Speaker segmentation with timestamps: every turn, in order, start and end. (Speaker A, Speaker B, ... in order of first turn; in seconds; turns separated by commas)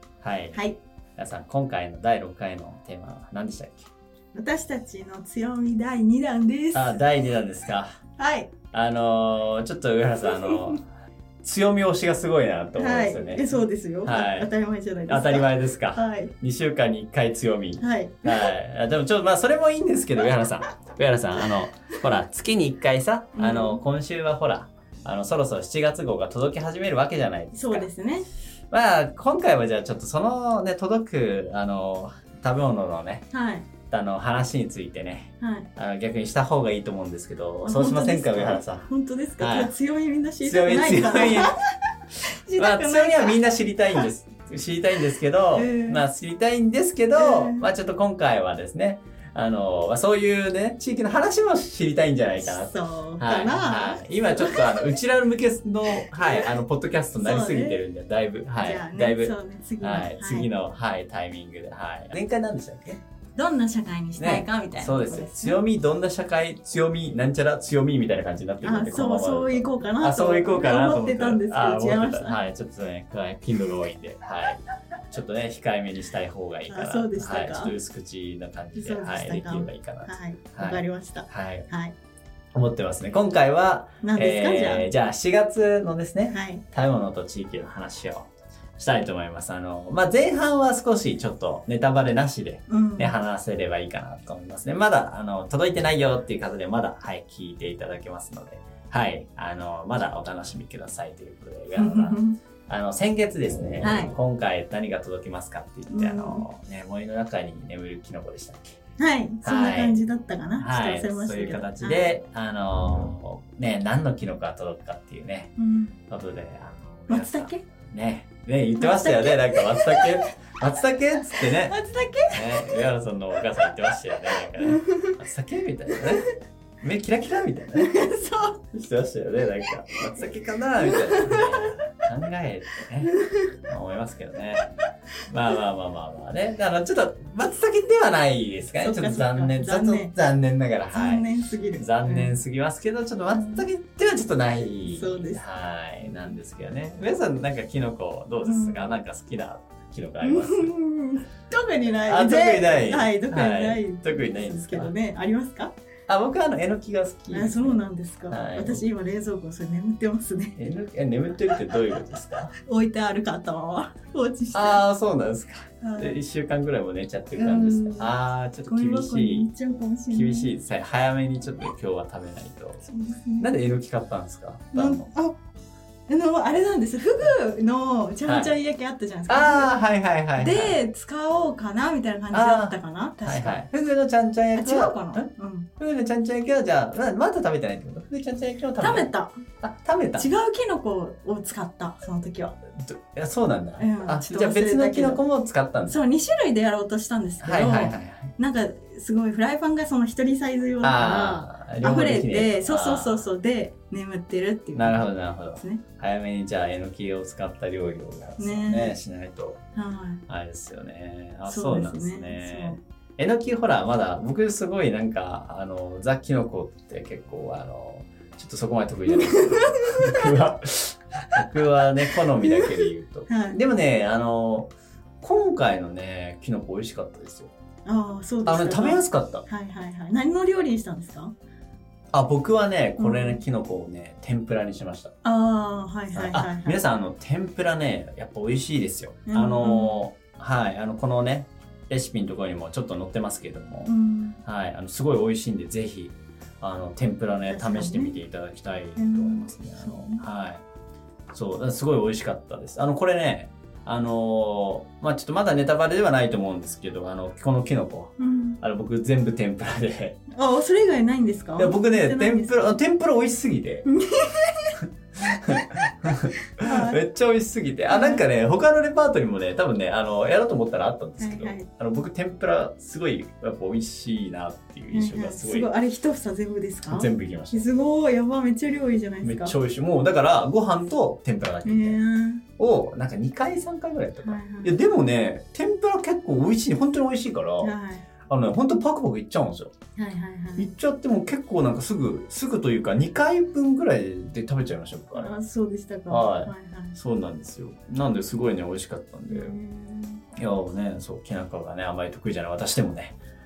Speaker A: 0.2-0.6, Speaker B: 0.5-0.8, Speaker A: 1.2-3.9, Speaker B: 4.3-7.0, Speaker A: 6.7-7.9, Speaker B: 8.2-8.5, Speaker A: 8.7-10.8, Speaker B: 10.5-10.8, Speaker A: 11.4-13.4, Speaker B: 12.8-16.3, Speaker A: 14.0-14.5, Speaker A: 15.1-27.9, Speaker B: 17.8-18.5, Speaker B: 23.3-23.8, Speaker B: 27.5-28.3, Speaker A: 28.7-33.3, Speaker B: 33.3-33.7, Speaker A: 33.9-39.7, Speaker B: 35.4-35.7, Speaker B: 37.6-41.6, Speaker A: 40.5-41.6, Speaker B: 42.2-44.1, Speaker A: 42.6-63.0, Speaker B: 45.5-46.0, Speaker B: 47.1-47.7, Speaker B: 52.4-54.8, Speaker B: 55.9-56.5, Speaker B: 57.2-57.8, Speaker B: 58.6-60.5, Speaker B: 63.4-65.6, Speaker A: 64.2-81.7, Speaker B: 68.6-72.4, Speaker B: 76.7-77.7, Speaker B: 78.8-82.0, Speaker A: 82.5-108.7, Speaker B: 84.0-84.9, Speaker B: 86.3-86.6, Speaker B: 92.7-93.2, Speaker B: 101.8-102.4, Speaker B: 103.8-104.1, Speaker B: 105.9-106.5, Speaker B: 109.0-112.1, Speaker A: 109.4-110.0, Speaker A: 110.6-115.5, Speaker B: 115.6-116.0, Speaker A: 116.1-121.8, Speaker B: 117.1-117.6, Speaker B: 118.8-120.3, Speaker B: 121.2-122.9, Speaker A: 122.3-126.3, Speaker B: 123.5-125.2, Speaker A: 126.8-128.0, Speaker B: 127.8-128.6, Speaker A: 128.7-133.1, Speaker B: 130.8-131.7, Speaker B: 133.1-133.6, Speaker A: 133.7-134.7, Speaker A: 135.3-150.7, Speaker B: 138.8-140.1, Speaker B: 140.9-142.4, Speaker B: 143.3-143.7, Speaker B: 144.8-145.4, Speaker B: 148.4-149.0, Speaker B: 150.2-155.7, Speaker A: 152.1-154.9, Speaker A: 156.1-158.8, Speaker B: 157.3-160.6, Speaker A: 160.6-162.5, Speaker B: 162.5-164.8, Speaker A: 164.5-169.5, Speaker B: 165.8-166.2, Speaker B: 167.3-168.1, Speaker B: 168.7-170.5, Speaker A: 170.1-172.8, Speaker B: 172.9-173.5, Speaker A: 173.4-175.1, Speaker B: 174.7-175.4, Speaker B: 176.1-179.8, Speaker A: 178.3-178.6, Speaker A: 179.3-180.8, Speaker B: 180.4-183.6, Speaker A: 182.3-185.3, Speaker B: 184.6-185.7, Speaker A: 185.8-190.3, Speaker B: 188.8-189.4, Speaker B: 190.2-192.6, Speaker A: 192.8-196.0, Speaker B: 193.8-195.2, Speaker B: 195.9-205.1, Speaker A: 197.4-198.3, Speaker A: 200.8-203.3, Speaker A: 204.8-209.6, Speaker B: 208.4-209.0, Speaker B: 209.8-210.2, Speaker A: 210.3-227.5, Speaker B: 211.5-212.8, Speaker B: 219.1-220.3, Speaker B: 221.3-223.6, Speaker B: 227.8-231.3, Speaker A: 228.4-229.5, Speaker A: 232.1-235.1, Speaker B: 233.0-233.4, Speaker B: 235.2-236.8, Speaker A: 236.1-243.9, Speaker B: 239.3-240.0, Speaker B: 243.9-244.4, Speaker A: 244.4-250.6, Speaker B: 247.5-248.2, Speaker B: 249.0-250.2, Speaker A: 251.3-260.2, Speaker B: 258.2-258.6, Speaker B: 260.3-262.7, Speaker A: 261.6-263.9, Speaker B: 263.9-267.0, Speaker A: 265.2-275.7, Speaker B: 267.9-268.2, Speaker B: 271.2-271.7, Speaker B: 274.9-279.6, Speaker A: 276.9-277.7, Speaker A: 279.2-282.0, Speaker B: 281.6-282.4, Speaker A: 282.6-287.7, Speaker B: 284.2-284.8, Speaker B: 287.6-288.1, Speaker A: 288.3-289.7, Speaker B: 290.0-290.7, Speaker A: 290.6-295.3, Speaker B: 295.2-297.0, Speaker A: 296.1-299.6, Speaker B: 299.3-300.2, Speaker A: 300.4-303.2